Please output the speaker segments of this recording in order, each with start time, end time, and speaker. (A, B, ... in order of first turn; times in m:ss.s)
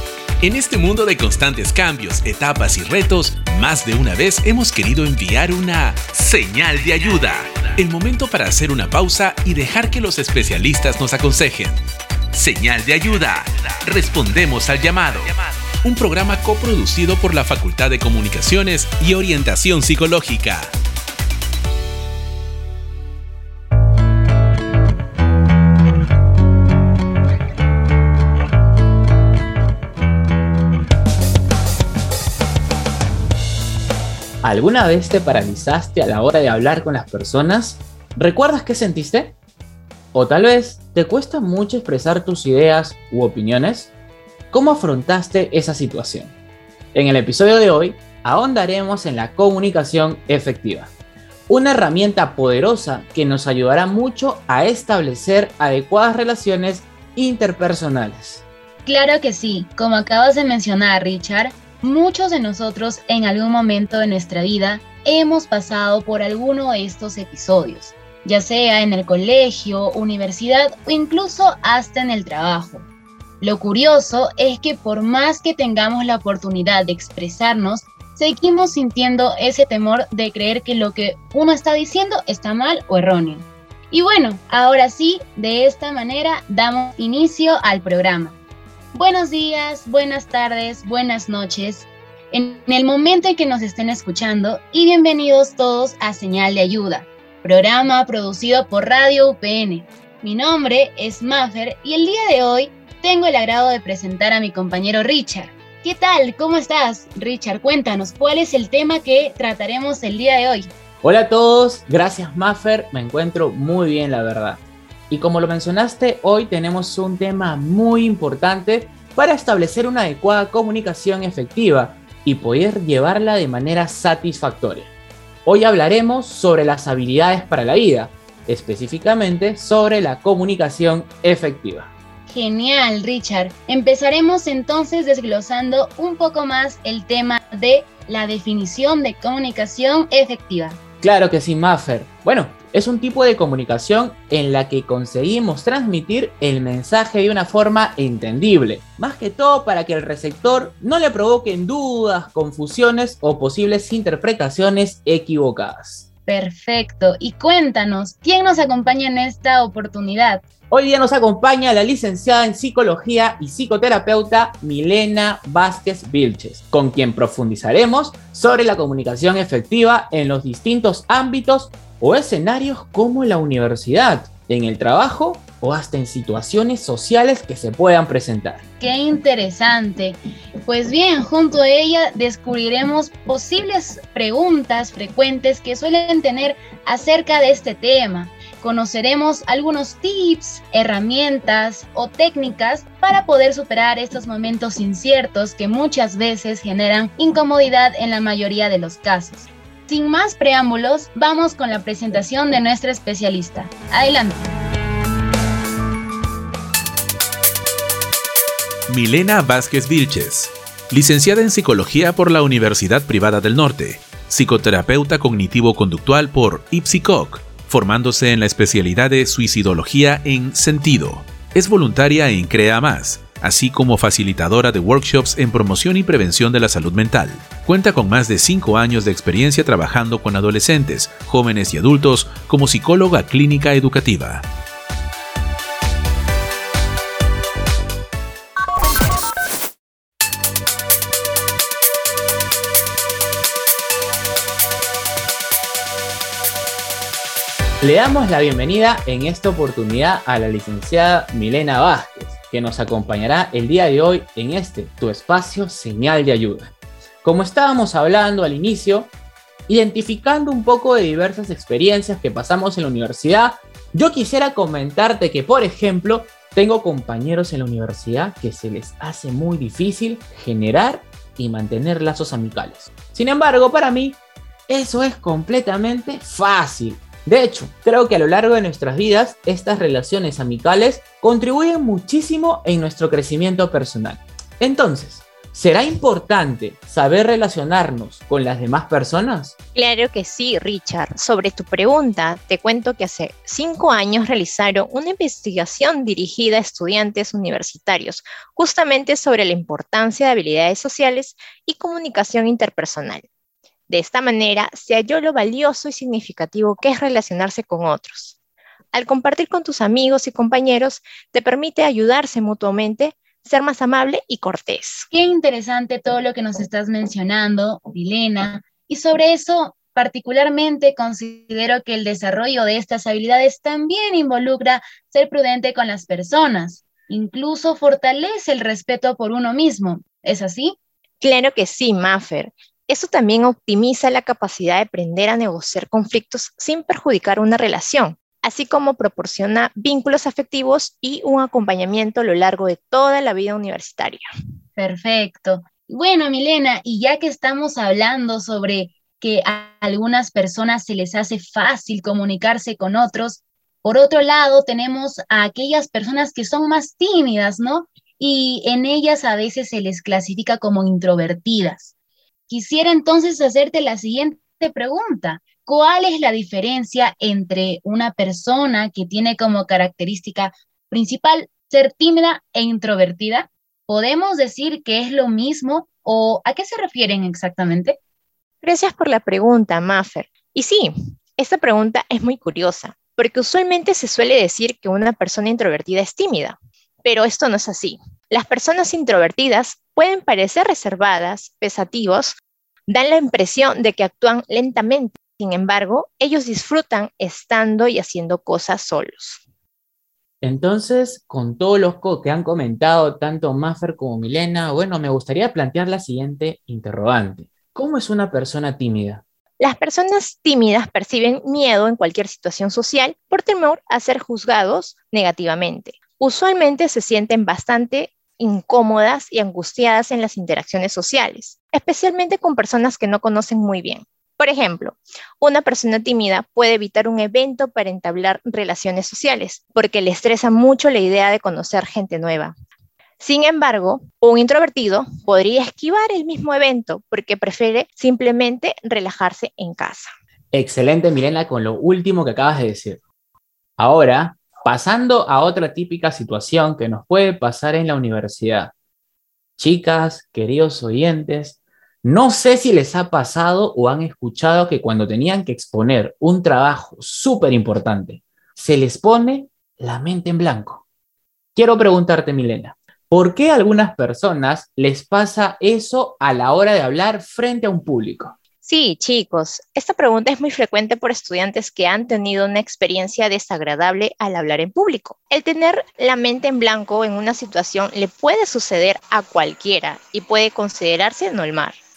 0:00.4-0:20.7 A
0:34.4-0:39.4 B
0:40.1-0:43.9 B
0:44.5-0:46.3 B
0:46.9-0:50.9 B
0:51.5-0:58.4 B
0:58.8-1:12.9 C
1:13.4-1:28.4 C
1:28.9-1:50.7 C
1:51.0-2:04.9 B
2:05.4-2:11.9 B
2:12.3-2:20.8 C
2:21.0-2:36.1 B
2:36.3-2:40.4 C
2:40.7-2:58.6 B
2:58.8-3:24.5 C
3:28.9-3:54.4 A
4:07.8-4:19.1 B
4:19.7-4:49.5 B
4:49.8-5:03.2 D
5:03.9-5:08.4 D
5:08.9-5:15.1 D
5:15.1-5:30.8 C
5:31.2-5:44.2 D
5:44.8-6:01.9 C
6:02.5-6:18.0 C
6:18.6-6:39.4 D
6:40.4-6:49.2 B
6:49.6-7:12.5 D
7:13.2-7:20.1 D
7:20.5-7:23.0 B
7:23.8-7:28.7 B
7:29.6-7:40.8 B
7:41.6-7:48.4 B
7:48.6-8:01.7 D